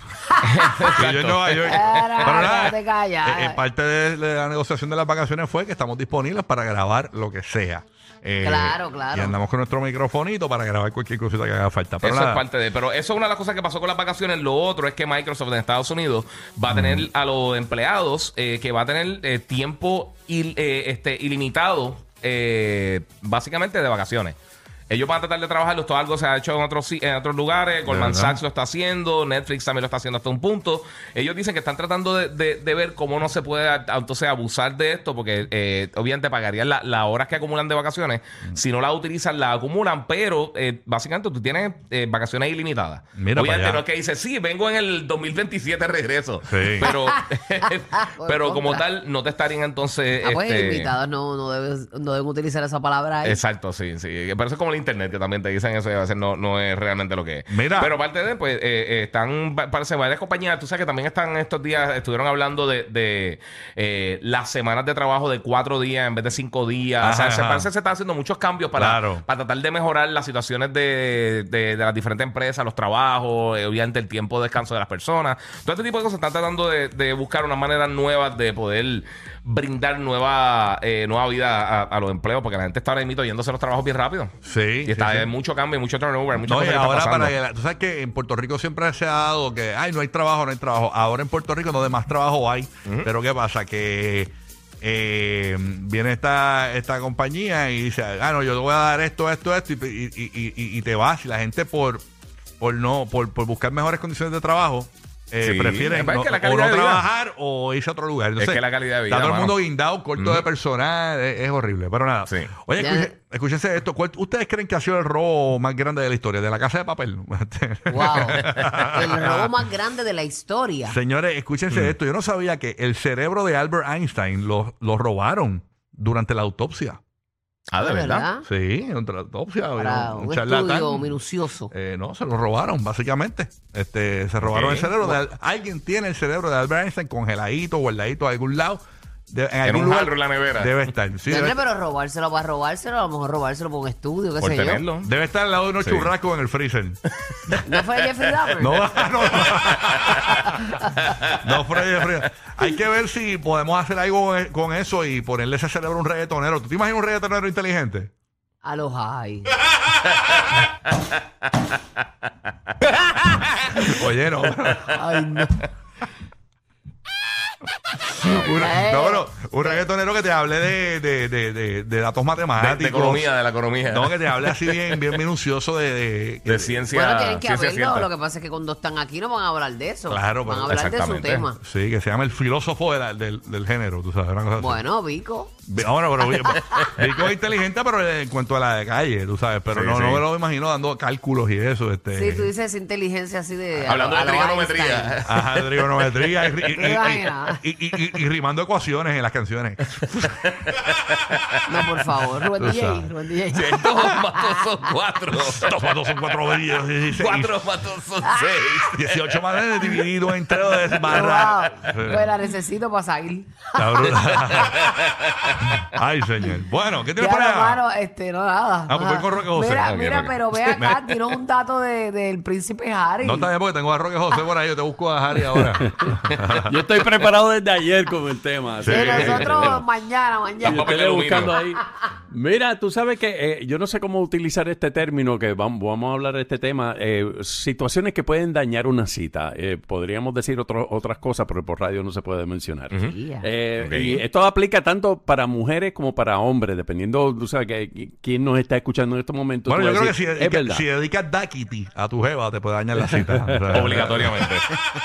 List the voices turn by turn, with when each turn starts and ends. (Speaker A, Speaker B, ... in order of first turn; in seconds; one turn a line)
Speaker A: 0.4-2.4
Speaker B: 0.9-12.4
Speaker C: 1.6-3.6
Speaker C: 8.4-9.3
Speaker A: 12.0-24.4
Speaker B: 16.7-17.1
Speaker A: 24.9-50.9
Speaker B: 27.9-28.4
Speaker B: 43.1-43.8
Speaker B: 46.5-46.9
Speaker C: 46.8-47.1
Speaker C: 47.6-48.8
Speaker C: 50.2-53.4
Speaker A: 53.2-87.3
Speaker B: 57.5-58.0
Speaker B: 67.0-67.7
Speaker B: 68.7-69.2
Speaker B: 84.4-85.3
Speaker B: 86.4-102.0
Speaker B: 102.6-119.6
Speaker A: 105.4-107.0
Speaker A: 108.4-109.6
Speaker A: 110.2-110.5
Speaker A: 112.2-112.5
Speaker C: 112.8-113.1
Speaker C: 117.9-121.0
Speaker A: 118.5-119.0
Speaker B: 120.8-127.0
Speaker A: 127.7-128.3
Speaker C: 127.8-128.4
Speaker B: 128.4-131.2
Speaker C: 129.8-131.7
Speaker B: 131.7-141.6
Speaker A: 134.4-135.1
Speaker A: 139.6-140.8
Speaker C: 141.3-144.8
Speaker A: 144.4-145.1
Speaker B: 145.0-147.6
Speaker A: 145.8-146.1
Speaker C: 147.7-148.8
Speaker B: 148.6-150.5
Speaker B: 151.3-158.1
Speaker C: 158.6-159.5
Speaker B: 163.7-165.1
Speaker C: 164.9-165.6
Speaker B: 168.1-173.3
Speaker C: 168.3-169.8
Speaker A: 172.6-175.0
Speaker B: 173.9-176.9
Speaker A: 176.4-178.1
Speaker C: 176.9-181.6
Speaker B: 180.1-180.8
Speaker A: 180.7-181.4
Speaker B: 181.6-184.8
Speaker C: 184.6-185.5
Speaker B: 185.7-192.5
Speaker A: 186.7-187.0
Speaker A: 189.7-190.2
Speaker C: 192.1-195.2
Speaker A: 193.8-196.2
Speaker B: 195.2-200.1
Speaker C: 196.7-197.6
Speaker A: 200.0-201.4
Speaker C: 201.7-204.6
Speaker B: 202.6-203.1
Speaker A: 203.5-211.2
Speaker B: 205.6-207.6
Speaker B: 208.9-212.3
Speaker C: 211.1-214.9
Speaker B: 213.8-214.9
Speaker A: 214.5-215.8
Speaker B: 215.7-217.8
Speaker C: 217.2-223.5
Speaker B: 218.9-220.1
Speaker A: 219.8-220.9
Speaker B: 220.7-221.1
Speaker B: 223.2-226.8
Speaker D: 225.5-229.8
Speaker B: 228.8-229.7
Speaker C: 228.9-231.8
Speaker D: 230.6-250.8
Speaker A: 230.6-231.6
Speaker C: 243.0-243.5
Speaker A: 243.8-244.2
Speaker B: 249.7-254.4
Speaker D: 253.0-254.2
Speaker A: 253.7-254.7